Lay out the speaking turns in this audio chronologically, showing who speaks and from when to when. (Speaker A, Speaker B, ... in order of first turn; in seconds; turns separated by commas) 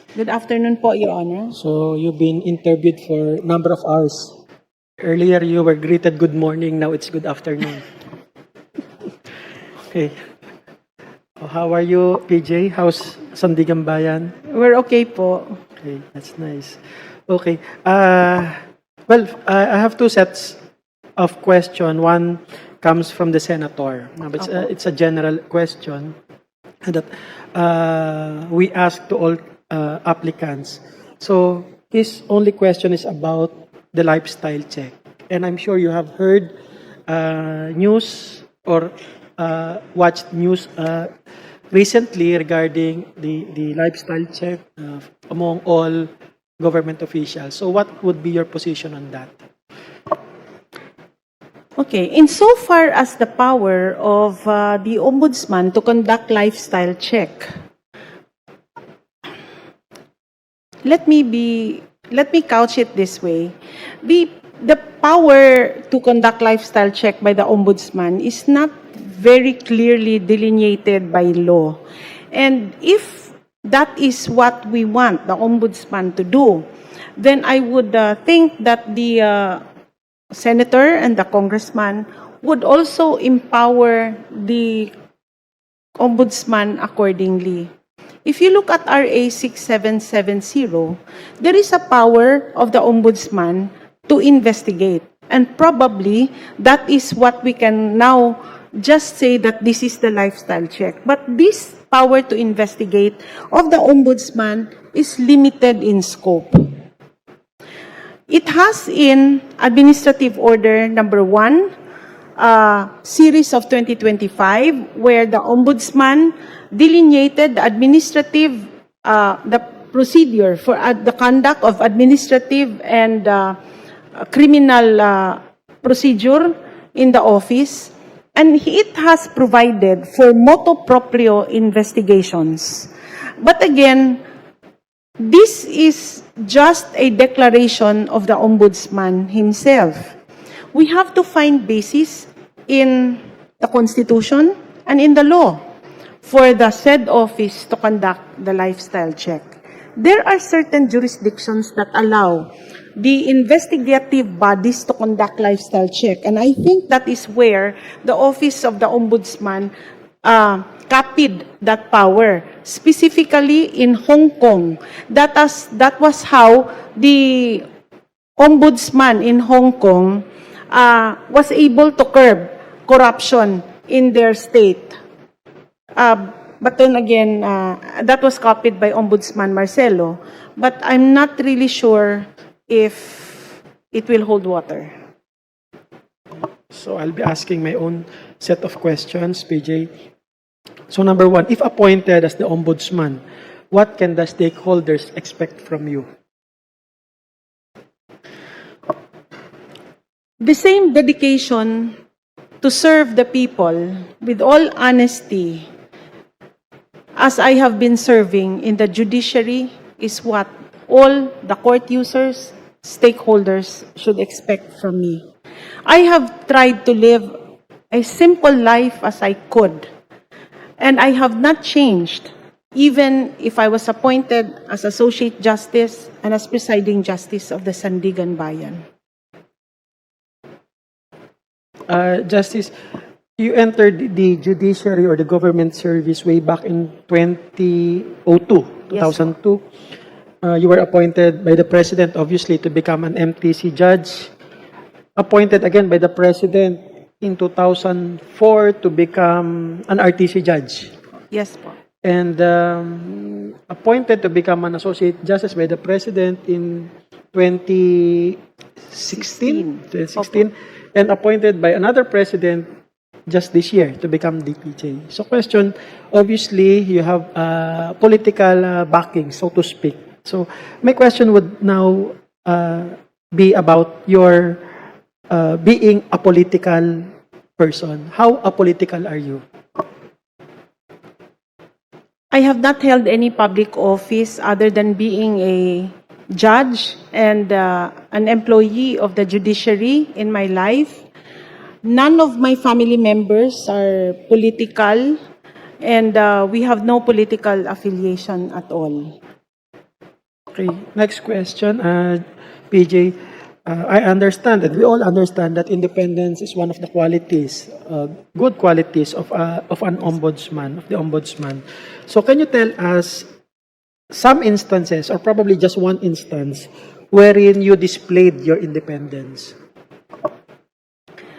Speaker A: 0.1-1.6, Speaker B: 1.5-4.3, Speaker B: 5.0-7.9, Speaker B: 9.8-10.1, Speaker B: 11.4-14.3, Speaker A: 14.5-15.6, Speaker B: 15.8-20.6, Speaker B: 21.2-26.1, Speaker B: 26.8-36.5, Speaker B: 37.1-41.1, Speaker B: 41.7-46.1, Speaker B: 46.6-49.3, Speaker A: 51.8-57.5, Speaker A: 60.8-71.8, Speaker A: 72.3-76.7, Speaker A: 77.2-79.6, Speaker A: 80.3-84.9, Speaker A: 86.0-87.7, Speaker A: 88.2-106.7, Speaker A: 108.3-111.7, Speaker A: 112.4-123.6, Speaker A: 124.2-134.2, Speaker A: 135.2-140.2, Speaker A: 140.7-145.6, Speaker A: 146.2-149.4, Speaker A: 150.0-159.7, Speaker A: 160.2-167.6, Speaker A: 168.4-174.9, Speaker A: 176.0-184.9, Speaker B: 186.7-189.9, Speaker B: 190.9-196.1, Speaker A: 200.4-201.9, Speaker A: 202.6-205.7, Speaker A: 207.2-215.2, Speaker A: 215.8-217.3, Speaker A: 217.9-219.9, Speaker A: 220.8-228.8, Speaker B: 231.9-232.7, Speaker B: 233.4-239.6, Speaker A: 238.9-239.3, Speaker B: 240.4-244.3, Speaker B: 245.2-250.9, Speaker A: 251.3-251.8, Speaker B: 252.0-258.4, Speaker B: 258.9-262.6, Speaker A: 259.1-260.4, Speaker B: 263.3-274.6, Speaker B: 275.3-277.1, Speaker B: 277.6-279.4, Speaker A: 282.3-291.0, Speaker A: 291.8-295.2, Speaker A: 295.8-299.2, Speaker B: 300.5-303.1, Speaker B: 303.6-313.3, Speaker B: 314.1-319.5